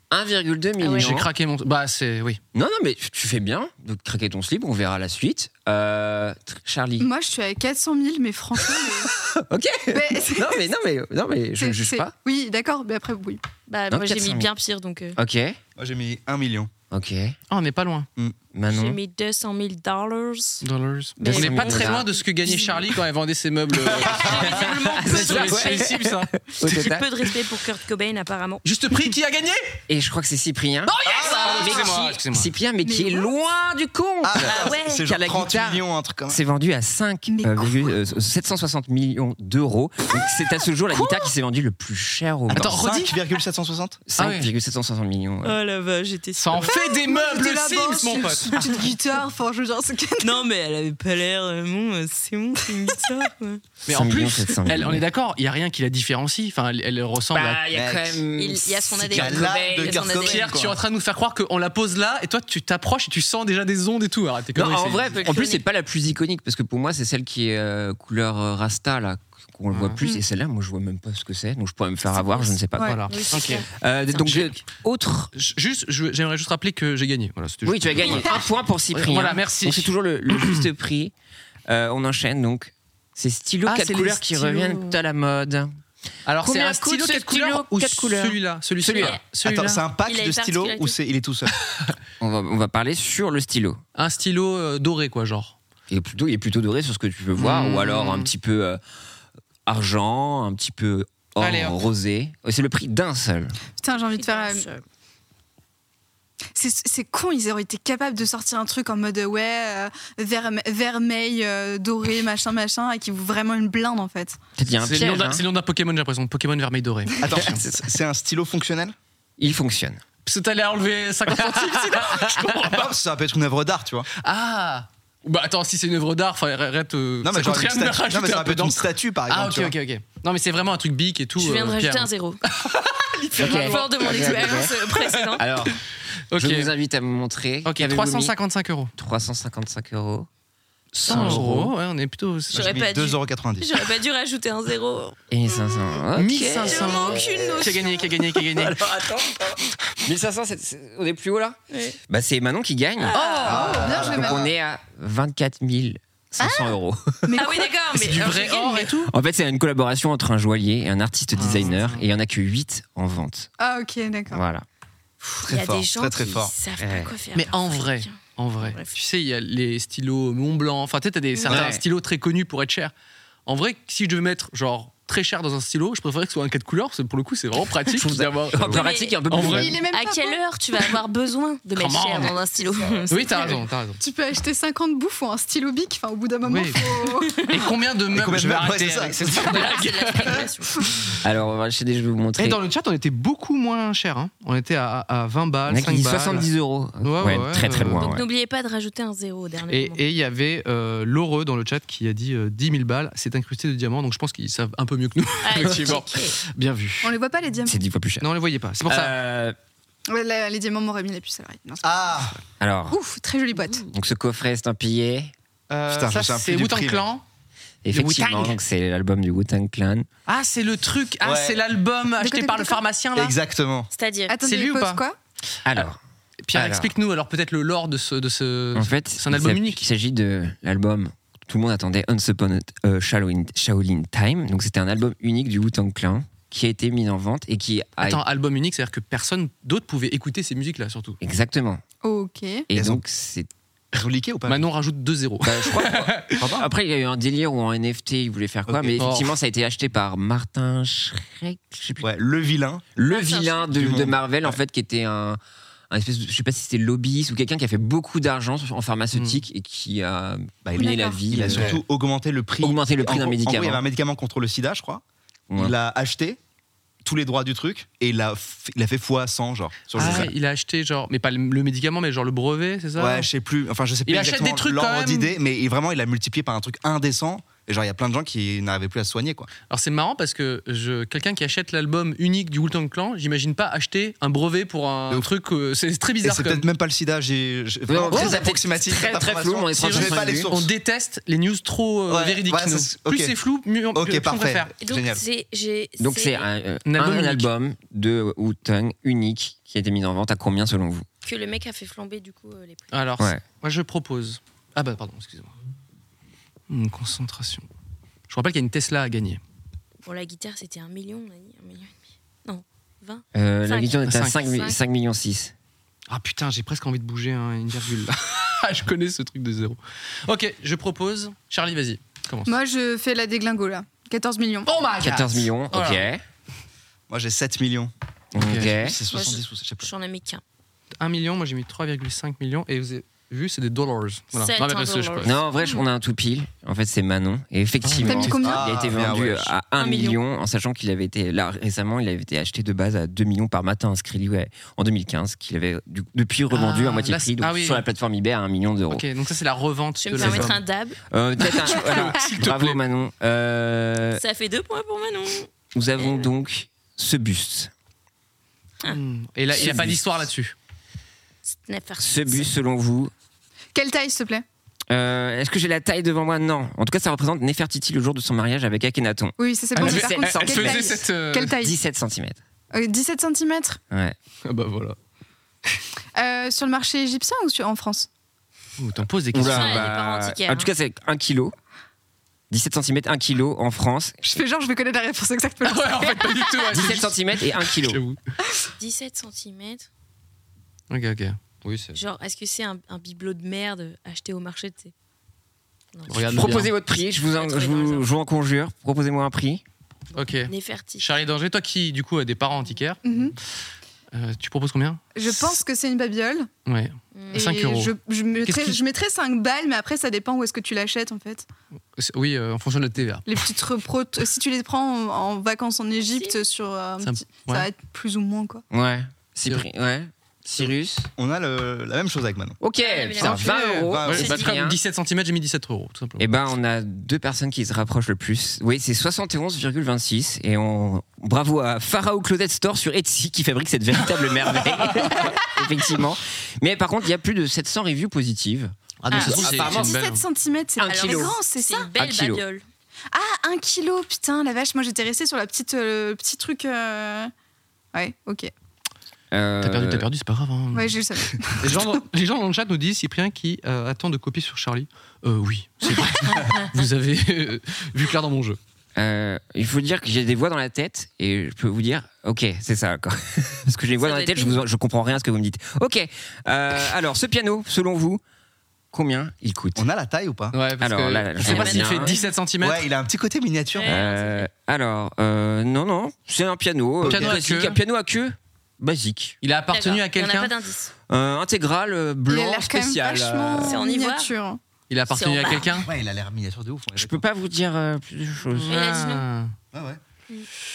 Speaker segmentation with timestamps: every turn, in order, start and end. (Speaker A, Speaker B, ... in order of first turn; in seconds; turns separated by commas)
Speaker A: 0.1-1.3, Speaker B: 0.8-1.1, Speaker C: 0.9-2.4, Speaker A: 2.5-7.1, Speaker D: 7.0-9.1, Speaker A: 9.1-12.1, Speaker D: 9.9-10.6, Speaker D: 11.6-13.4, Speaker B: 13.7-15.2, Speaker A: 13.9-14.5, Speaker A: 15.2-15.6, Speaker E: 15.8-16.7, Speaker A: 16.9-17.4, Speaker C: 17.5-18.1, Speaker A: 18.5-19.0, Speaker B: 18.7-20.6, Speaker C: 20.6-26.3, Speaker B: 21.2-23.0, Speaker A: 21.2-22.1, Speaker B: 23.9-28.6, Speaker A: 24.3-27.1, Speaker C: 28.6-29.6, Speaker A: 29.9-42.9, Speaker C: 30.9-32.5, Speaker E: 31.1-31.9, Speaker D: 32.8-33.3, Speaker E: 34.2-36.4, Speaker B: 34.4-35.0, Speaker D: 37.3-37.9, Speaker C: 42.5-43.2, Speaker E: 42.5-44.0, Speaker A: 44.1-45.6, Speaker C: 44.2-44.5, Speaker B: 45.4-46.8, Speaker C: 46.4-48.8, Speaker D: 46.7-50.4, Speaker B: 50.2-53.6, Speaker C: 53.9-57.7, Speaker A: 53.9-55.0, Speaker A: 57.3-60.2, Speaker E: 57.7-58.2, Speaker B: 58.4-60.5, Speaker E: 59.0-60.8, Speaker C: 60.2-65.2, Speaker A: 64.5-75.3, Speaker B: 65.2-65.6, Speaker C: 69.7-70.0, Speaker B: 72.1-74.2, Speaker C: 72.8-73.7, Speaker C: 74.2-74.5, Speaker C: 75.3-78.4, Speaker A: 77.7-81.1, Speaker C: 78.9-80.6, Speaker A: 81.7-85.7, Speaker C: 83.7-84.9, Speaker C: 86.3-89.8, Speaker A: 86.4-89.2, Speaker B: 88.9-89.2, Speaker E: 89.4-91.6, Speaker B: 90.1-91.0, Speaker A: 92.2-93.8, Speaker C: 94.0-95.6, Speaker A: 95.9-98.8, Speaker C: 97.4-98.3, Speaker A: 99.7-103.6, Speaker C: 101.4-101.8, Speaker D: 103.8-104.7, Speaker B: 104.0-104.8, Speaker D: 106.5-114.4, Speaker A: 114.6-115.4, Speaker C: 114.8-117.7, Speaker E: 117.2-119.0, Speaker A: 119.4-120.0, Speaker C: 120.2-122.9, Speaker A: 121.9-122.2, Speaker E: 122.6-124.1, Speaker C: 124.2-135.4, Speaker E: 127.2-129.8, Speaker B: 131.4-132.4, Speaker A: 133.4-134.8, Speaker B: 133.4-135.4, Speaker A: 135.3-135.8, Speaker C: 136.3-136.7, Speaker A: 136.3-138.3, Speaker C: 137.7-138.9, Speaker A: 139.0-140.3, Speaker C: 140.9-142.8, Speaker A: 141.1-141.7, Speaker E: 141.1-141.7, Speaker E: 142.5-143.7, Speaker B: 142.5-145.2, Speaker A: 145.3-151.6, Speaker C: 146.2-148.8, Speaker B: 146.6-148.0, Speaker D: 147.3-147.6, Speaker B: 151.7-152.0, Speaker A: 152.1-153.2, Speaker B: 153.0-153.7, Speaker C: 153.1-153.8, Speaker E: 153.4-154.5, Speaker D: 153.4-154.5, Speaker A: 153.9-157.4, Speaker D: 156.4-156.8, Speaker D: 157.3-157.7, Speaker B: 157.3-158.9, Speaker C: 157.9-159.1, Speaker A: 159.1-163.5, Speaker C: 161.3-162.1, Speaker D: 163.6-164.4, Speaker A: 164.3-164.7, Speaker B: 165.2-168.9, Speaker E: 165.4-166.5, Speaker A: 166.8-167.1, Speaker C: 167.3-172.9, Speaker A: 171.5-171.8, Speaker C: 173.5-179.8, Speaker A: 177.9-179.8, Speaker B: 178.7-179.2, Speaker D: 179.4-180.4, Speaker B: 179.9-183.6, Speaker C: 181.7-182.3, Speaker C: 183.1-184.0, Speaker D: 184.0-187.5, Speaker C: 186.4-186.9, Speaker C: 187.4-190.5, Speaker E: 188.1-189.7, Speaker B: 189.4-190.7, Speaker A: 191.2-192.6, Speaker C: 192.4-196.5, Speaker A: 195.7-198.2, Speaker C: 197.0-198.0, Speaker B: 197.9-200.0, Speaker C: 199.7-207.2, Speaker B: 205.4-206.4, Speaker A: 205.6-205.9, Speaker D: 207.0-207.8, Speaker A: 207.7-208.3, Speaker C: 208.2-209.2, Speaker A: 208.8-209.6, Speaker D: 210.1-212.3, Speaker E: 211.8-212.3, Speaker A: 212.6-213.0, Speaker D: 212.9-213.9, Speaker A: 213.9-215.3, Speaker C: 215.7-217.2, Speaker E: 215.9-217.1, Speaker A: 217.8-220.1, Speaker C: 217.9-218.6, Speaker C: 220.3-223.4, Speaker E: 221.2-221.6, Speaker D: 222.2-222.8, Speaker E: 223.1-223.9, Speaker B: 223.9-224.4, Speaker D: 224.3-225.2, Speaker C: 224.4-225.0, Speaker A: 225.7-226.0, Speaker C: 226.4-229.8, Speaker A: 226.5-226.9, Speaker A: 228.8-238.2, Speaker C: 238.0-241.2, Speaker A: 241.2-241.8, Speaker D: 242.0-242.7, Speaker A: 242.7-243.5, Speaker E: 242.7-243.0, Speaker E: 243.9-244.7, Speaker C: 244.5-246.4, Speaker A: 245.4-252.1, Speaker E: 246.4-246.7, Speaker E: 248.7-249.1, Speaker C: 249.0-249.3, Speaker E: 252.0-252.9, Speaker A: 253.0-261.8, Speaker B: 253.1-253.7, Speaker E: 253.7-254.6, Speaker C: 259.1-259.4, Speaker E: 260.7-265.0, Speaker D: 260.8-261.2, Speaker A: 262.6-263.8, Speaker A: 265.5-265.8, Speaker E: 265.6-266.4, Speaker E: 267.0-270.3, Speaker C: 269.9-273.3, Speaker A: 270.0-270.3, Speaker E: 273.0-279.5, Speaker C: 274.1-275.4, Speaker C: 279.7-286.7, Speaker E: 286.2-290.7, Speaker A: 287.9-290.5, Speaker C: 288.1-288.4, Speaker C: 289.8-294.7, Speaker E: 292.1-293.4, Speaker E: 293.9-295.2, Speaker B: 294.8-296.5, Speaker A: 296.0-301.1, Speaker C: 296.9-297.5, Speaker B: 301.2-303.0, Speaker C: 302.9-305.5, Speaker C: 306.7-307.6, Speaker C: 308.3-309.4, Speaker B: 310.1-314.8, Speaker A: 313.4-315.5, Speaker C: 314.1-314.4, Speaker C: 316.1-322.6, Speaker D: 322.5-324.7, Speaker C: 324.6-326.1, Speaker A: 325.0-326.2, Speaker E: 327.1-329.9, Speaker C: 328.4-328.8, Speaker A: 328.4-329.0, Speaker B: 329.1-330.4, Speaker C: 331.0-335.4, Speaker B: 334.4-335.8, Speaker A: 335.2-349.1, Speaker C: 337.8-338.4, Speaker D: 338.0-338.8, Speaker E: 338.4-339.5, Speaker B: 339.8-340.2, Speaker C: 346.5-347.8, Speaker C: 348.9-350.6, Speaker B: 350.0-351.0, Speaker A: 350.2-350.6, Speaker A: 351.1-354.2, Speaker C: 351.6-352.8, Speaker B: 354.2-356.3, Speaker A: 355.8-357.7, Speaker C: 358.9-360.5, Speaker A: 359.5-360.0, Speaker B: 361.5-362.5, Speaker A: 362.0-363.1, Speaker D: 363.7-364.4, Speaker A: 364.9-371.0, Speaker D: 369.4-371.8, Speaker C: 369.8-371.6, Speaker A: 371.6-372.4, Speaker D: 372.7-373.8, Speaker A: 373.9-374.2, Speaker C: 374.4-375.0, Speaker D: 376.2-378.1, Speaker C: 378.8-379.9, Speaker A: 379.3-381.6, Speaker B: 379.4-380.7, Speaker A: 382.5-384.2, Speaker D: 384.2-386.9, Speaker C: 385.6-388.2, Speaker A: 386.7-388.0, Speaker B: 388.8-389.9, Speaker C: 390.9-392.0, Speaker B: 391.9-394.9, Speaker B: 395.9-396.7, Speaker C: 396.1-396.7, Speaker A: 396.1-399.6, Speaker B: 397.3-398.1, Speaker C: 400.1-403.0, Speaker B: 400.5-401.1, Speaker D: 403.0-403.4, Speaker C: 404.1-405.6, Speaker D: 405.1-406.5, Speaker C: 406.7-408.8, Speaker B: 407.1-407.4, Speaker D: 407.3-411.5, Speaker C: 412.0-413.3, Speaker D: 413.3-418.6, Speaker B: 416.0-416.4, Speaker C: 417.0-417.7, Speaker A: 418.7-421.1, Speaker E: 421.2-422.6, Speaker A: 422.6-424.8, Speaker B: 422.8-423.6, Speaker C: 423.2-426.3, Speaker E: 423.3-424.5, Speaker B: 424.1-424.4, Speaker A: 426.2-439.9, Speaker C: 439.0-440.2, Speaker B: 439.1-439.7, Speaker D: 439.5-441.9, Speaker A: 440.8-441.4, Speaker B: 440.8-442.6, Speaker A: 442.0-442.4, Speaker D: 443.1-447.3, Speaker D: 447.9-448.5, Speaker A: 449.3-450.1, Speaker C: 449.6-451.0, Speaker D: 450.7-452.0, Speaker C: 451.6-458.6, Speaker B: 456.4-456.6, Speaker A: 459.0-468.2, Speaker B: 464.0-464.6, Speaker A: 468.9-469.9, Speaker E: 469.8-470.6, Speaker C: 470.5-472.9, Speaker A: 470.8-472.2, Speaker B: 471.4-472.3, Speaker E: 472.6-474.0, Speaker B: 473.7-474.5, Speaker A: 473.8-479.4, Speaker C: 477.0-477.8, Speaker E: 477.1-477.4, Speaker C: 479.4-480.5, Speaker B: 479.7-480.9, Speaker A: 481.1-483.8, Speaker D: 482.3-484.6, Speaker B: 483.6-484.3, Speaker C: 484.9-485.9, Speaker B: 485.1-485.9, Speaker E: 485.8-487.2, Speaker A: 486.9-488.8, Speaker C: 488.5-489.5, Speaker B: 488.7-489.3, Speaker E: 489.7-490.0